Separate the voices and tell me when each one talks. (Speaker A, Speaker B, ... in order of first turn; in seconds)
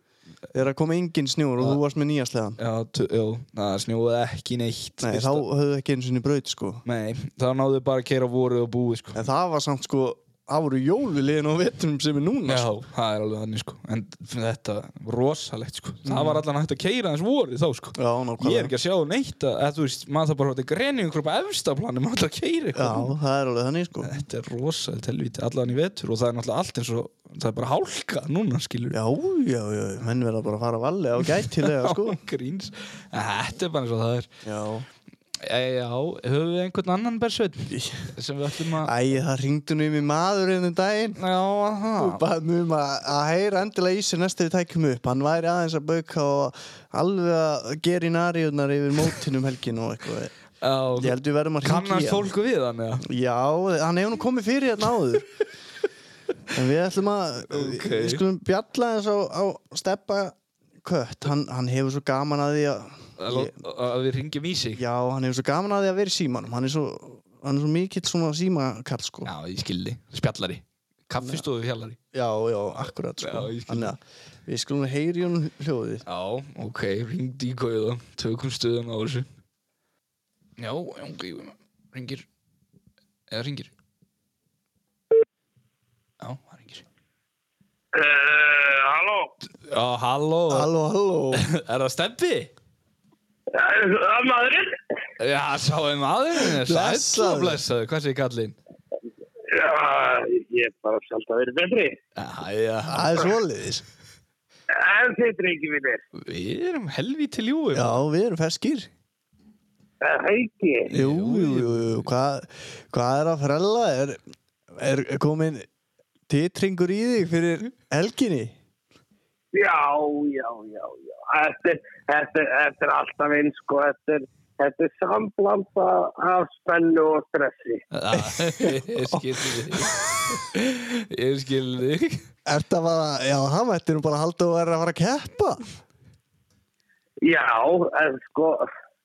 Speaker A: 0.5-2.6, 5.0-6.8, 9.1-12.7, 16.0-16.4, 17.9-18.7, 22.7-24.1, 28.9-32.2, 34.4-34.9, 37.7-38.1, 38.8-41.2, 42.0-50.3, 51.0-52.3, 53.0-55.2, 56.5-63.5, 64.7-69.3, 72.1-76.0, 90.5-91.4, 96.6-97.6, 102.9-103.8, 107.7-108.9, 110.9-114.2, 114.7-115.7, 116.3-118.5, 128.2-129.9, 132.4-135.6
Speaker B: 2.6-5.4, 6.8-9.2, 12.5-23.1, 24.0-29.0, 31.6-34.3, 35.4-38.9, 41.2-42.2, 50.6-53.0, 57.5-58.2, 63.2-64.8, 69.2-72.0, 73.2-73.9, 76.0-79.3, 80.6-82.2, 83.3-83.7, 86.2-86.8, 89.7-90.7, 91.3-92.5, 95.2-98.5, 102.2-103.2, 106.2-108.0, 110.9-112.0, 127.9-132.2
Speaker C: 87.9-89.3, 93.5-94.8, 99.5-102.0, 104.7-106.0, 110.0-110.9, 119.5-127.8, 137.2-138.7